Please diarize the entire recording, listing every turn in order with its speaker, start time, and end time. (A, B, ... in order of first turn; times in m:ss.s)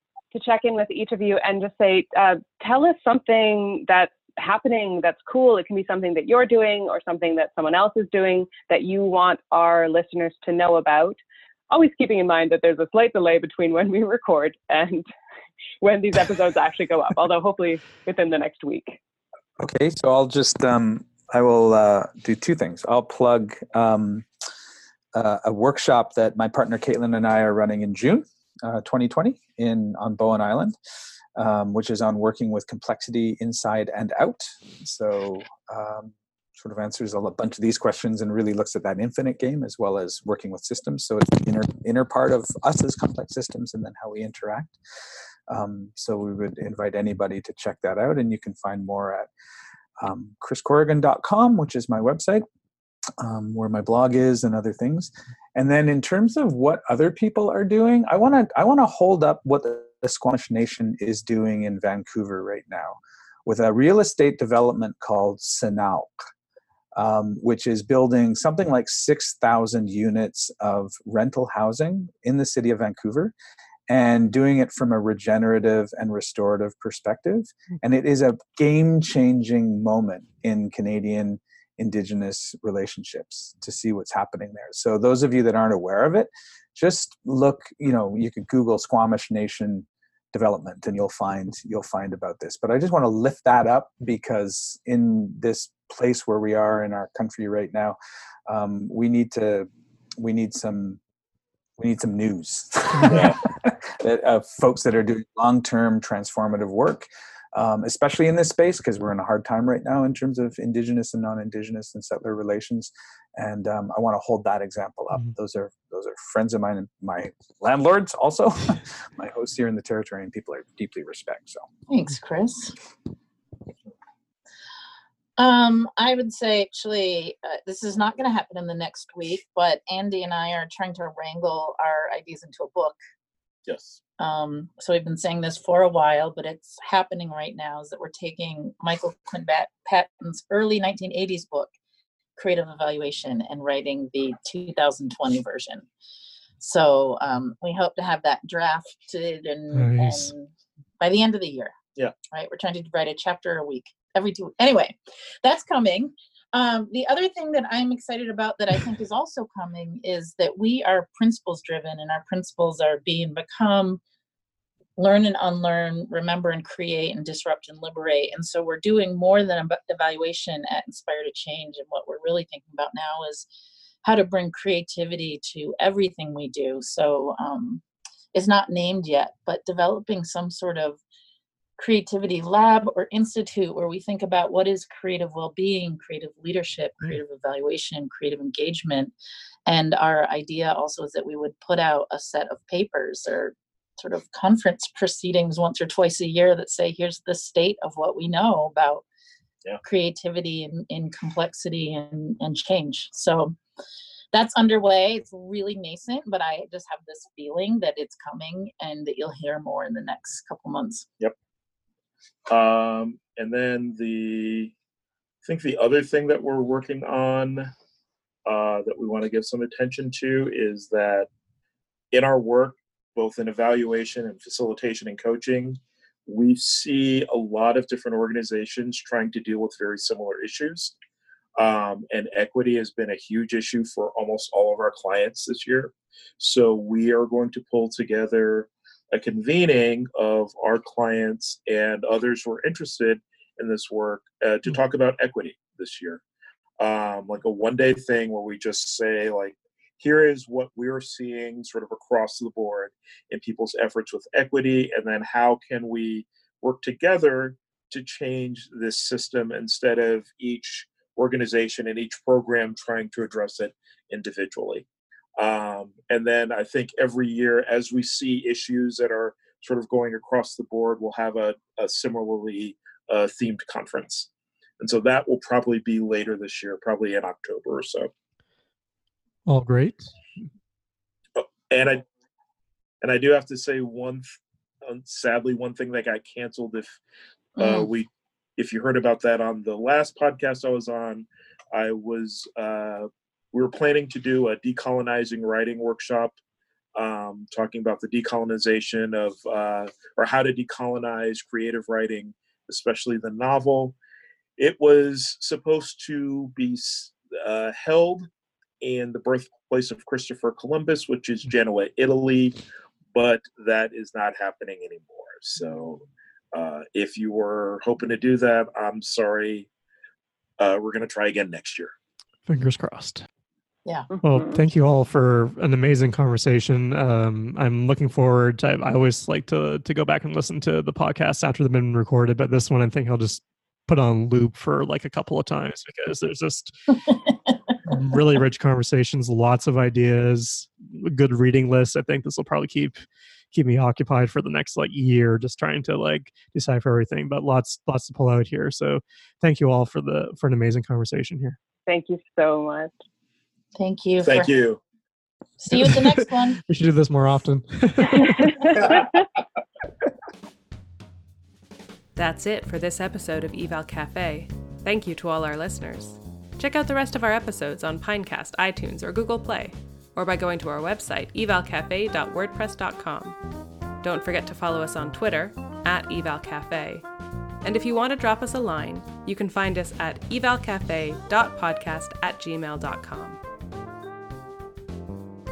0:00.3-0:11.2 A
0:11.7-0:15.0 A
0:15.8-0:19.0 A
0:19.6-0:24.3 B
0:25.1-0:30.8 B
0:31.4-0:44.8 B
0:45.5-0:49.3 B
0:50.0-0:52.4 B
0:53.2-1:06.1 B
1:06.9-1:13.3 B
1:13.9-1:38.0 B
1:38.5-1:41.0 B
1:41.8-2:01.7 B
1:43.1-1:43.4 C
2:01.9-2:02.8 D
2:05.4-2:13.0 D
2:13.7-2:14.0 C
2:14.2-2:21.7 D
2:22.4-2:25.8 D
2:26.6-2:30.5 D
2:29.7-2:30.3 E
2:31.0-2:31.7 D
2:32.3-2:44.0 D
2:45.0-2:53.4 D
2:54.0-2:57.8 D
2:58.3-3:01.0 D
3:01.8-3:09.1 D
3:09.7-3:19.0 D
3:19.8-3:23.6 D
3:24.3-3:31.1 D
3:32.5-3:34.7 C
3:35.4-3:37.7 C
3:38.4-3:41.3 C
3:42.1-3:50.9 C
3:51.6-4:06.2 C
4:06.8-4:24.8 C
4:25.4-4:34.3 C
4:34.8-4:38.1 C
4:39.4-4:40.1 E
4:41.4-4:42.0 C
4:43.0-4:44.2 C
4:44.8-4:47.0 C
4:47.6-4:47.9 D
4:47.6-4:56.3 C
4:56.9-5:03.9 C
5:04.6-5:08.3 C
5:08.8-5:12.6 C
5:13.1-5:19.7 C
5:20.6-5:21.9 C
5:22.5-5:23.2 E
5:24.1-5:24.6 A
5:24.2-5:37.0 E
5:37.9-5:43.0 E
5:43.5-5:51.6 E
5:51.8-5:52.9 A
5:53.8-5:54.5 D
5:54.2-5:54.8 C
5:55.6-5:56.6 D
5:55.7-5:58.9 E
5:58.0-5:59.2 A
6:02.2-6:13.4 F
6:14.0-6:17.0 F
6:17.6-6:23.4 F